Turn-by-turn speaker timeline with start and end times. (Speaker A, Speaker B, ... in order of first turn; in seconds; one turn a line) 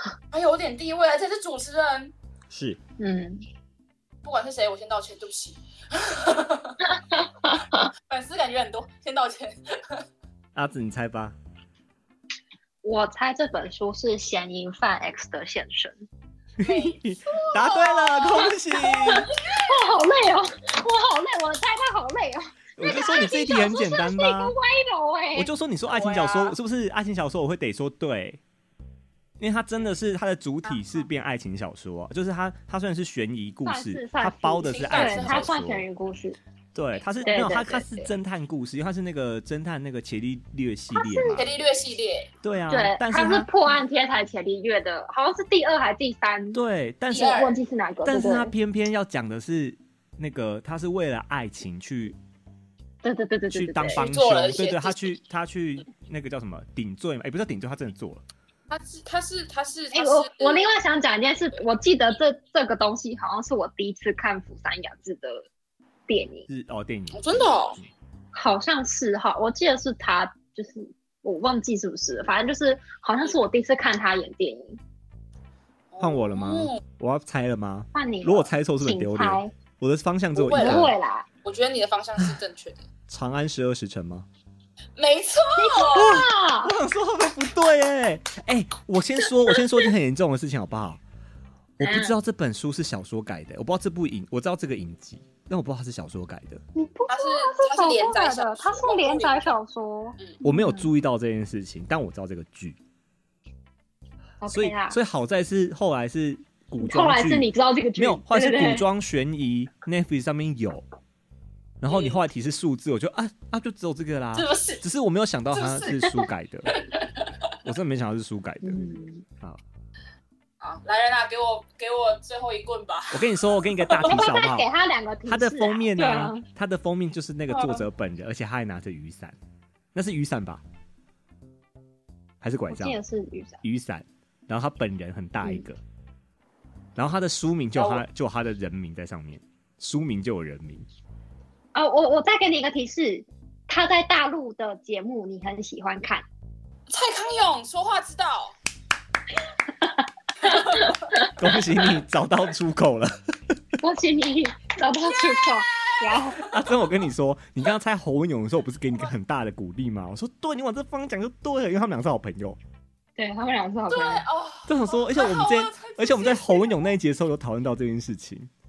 Speaker A: 0.3-2.1
Speaker B: 2.5-2.8
Speaker C: 3.0-3.4
Speaker A: 4.2-6.8
Speaker C: 7.1-7.8
Speaker A: 8.1-10.0
Speaker B: 10.5-11.4
Speaker C: 12.8-16.1
Speaker B: 16.6-19.3
Speaker A: 16.6-19.9
Speaker C: 18.5-25.5
Speaker B: 22.8-24.5
Speaker B: 25.4-28.4
Speaker A: 25.9-26.6
Speaker B: 29.4-35.8
Speaker C: 33.6-36.4
Speaker A: 34.6-35.6
Speaker B: 36.7-41.5
Speaker C: 37.2-38.1
Speaker C: 40.9-41.5
Speaker A: 41.3-42.3
Speaker B: 42.4-43.5
Speaker C: 42.7-46.6
Speaker B: 46.5-47.4
Speaker A: 47.1-47.5
Speaker C: 47.1-48.5
Speaker B: 48.0-52.2
Speaker C: 53.0-54.0
Speaker B: 53.5-58.2
Speaker A: 53.9-55.2
Speaker A: 58.7-60.7
Speaker C: 59.9-65.5
Speaker C: 66.1-66.5
Speaker B: 66.5-67.9
Speaker A: 67.1-67.8
Speaker C: 68.3-74.8
Speaker A: 75.9-76.8
Speaker B: 76.0-80.9
Speaker C: 77.9-79.5
Speaker A: 80.3-82.9
Speaker C: 80.5-81.3
Speaker B: 83.1-84.3
Speaker A: 85.0-86.2
Speaker C: 85.5-86.8
Speaker B: 85.9-91.0
Speaker B: 91.8-96.6
Speaker C: 91.8-92.1
Speaker C: 96.7-100.9
Speaker A: 97.1-99.5
Speaker B: 100.4-102.8
Speaker C: 104.4-105.0
Speaker B: 104.5-110.8
Speaker C: 106.8-108.8
Speaker B: 111.8-116.8
Speaker A: 111.9-112.2
Speaker A: 114.3-114.8
Speaker A: 115.5-117.5
Speaker B: 117.6-119.6
Speaker C: 118.6-119.2
Speaker A: 120.6-124.2
Speaker B: 123.1-124.7
Speaker C: 124.0-126.4
Speaker B: 125.3-129.4
Speaker A: 127.5-127.9
Speaker B: 129.9-130.6
Speaker B: 132.4-133.0
Speaker C: 132.7-133.6
Speaker B: 133.6-135.8
Speaker B: 136.9-140.8
Speaker A: 137.8-138.0
Speaker C: 141.7-146.2
Speaker A: 146.9-148.6
Speaker C: 149.7-151.3
Speaker A: 150.4-151.0
Speaker B: 151.4-153.6
Speaker C: 153.8-156.4
Speaker A: 155.0-156.6
Speaker B: 156.4-162.6
Speaker C: 163.2-164.2
Speaker A: 163.9-166.9
Speaker B: 164.7-168.5